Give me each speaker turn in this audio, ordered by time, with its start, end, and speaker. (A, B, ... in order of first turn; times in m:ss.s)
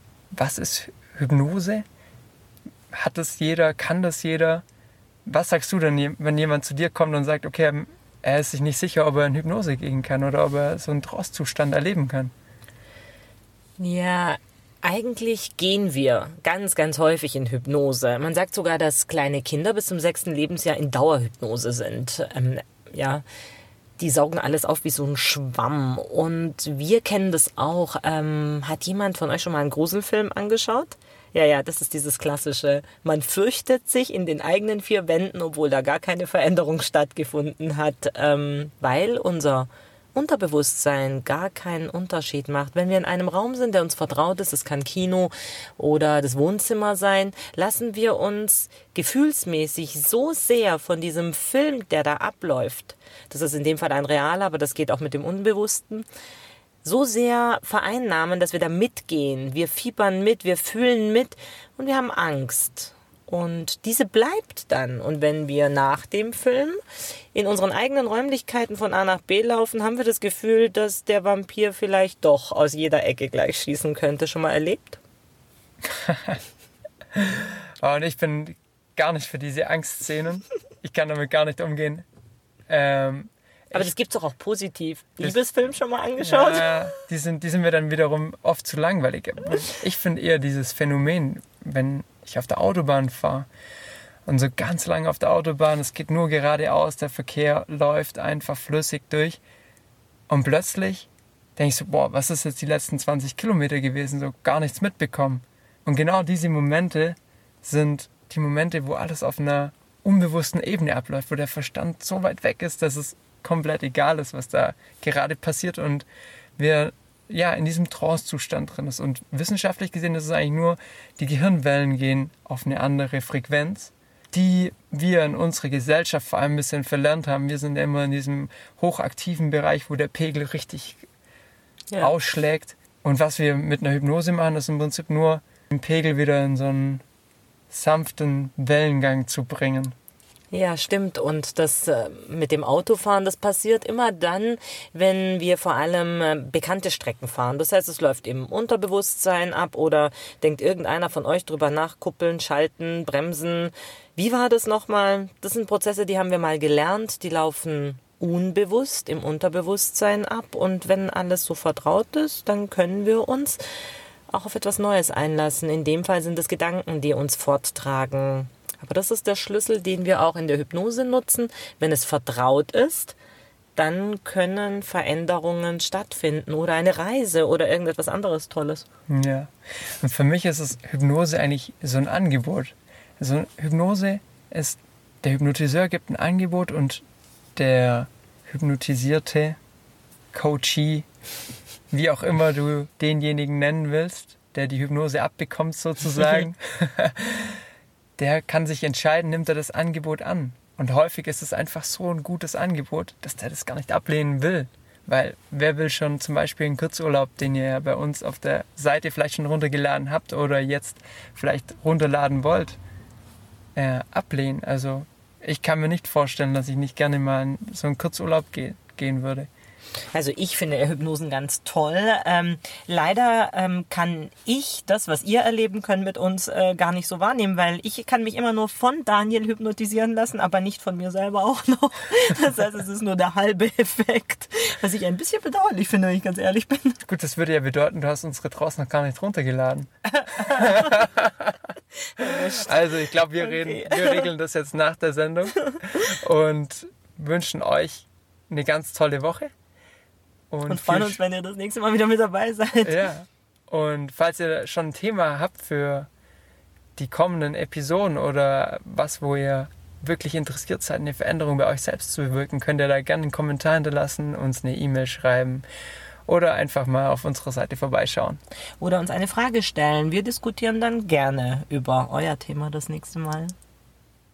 0:00.3-0:01.8 A
0:02.9-0:04.6 A
0:05.3-0:12.3 A
0:13.8-0:23.2 B
0:24.0-0:56.1 B
0:56.8-1:06.8 B
1:07.3-1:15.0 B
1:15.9-1:16.4 A
1:17.2-1:22.0 A
1:22.7-1:23.9 A
1:23.7-1:26.8 B
1:26.2-1:33.5 A
1:34.3-1:39.4 A
1:40.3-1:56.1 A
1:56.6-2:11.1 A
2:12.0-2:17.0 A
2:17.7-2:19.9 A
2:20.5-2:43.6 B
2:44.3-2:53.2 B
2:53.8-2:58.9 B
2:59.1-3:07.0 A
3:07.6-3:09.6 A
3:10.3-3:11.1 A
3:11.9-3:17.6 A
3:18.2-3:32.8 A
3:33.8-3:39.5 A
3:40.1-3:57.0 B
3:57.1-4:01.5 A
4:00.4-4:00.9 B
4:02.2-4:02.8 B
4:02.6-4:09.5 A
4:03.4-4:04.3 B
4:10.5-4:11.2 A
4:10.7-4:13.0 B
4:12.8-4:16.1 A
4:17.0-4:25.6 A
4:26.3-4:28.4 A
4:28.8-4:33.5 B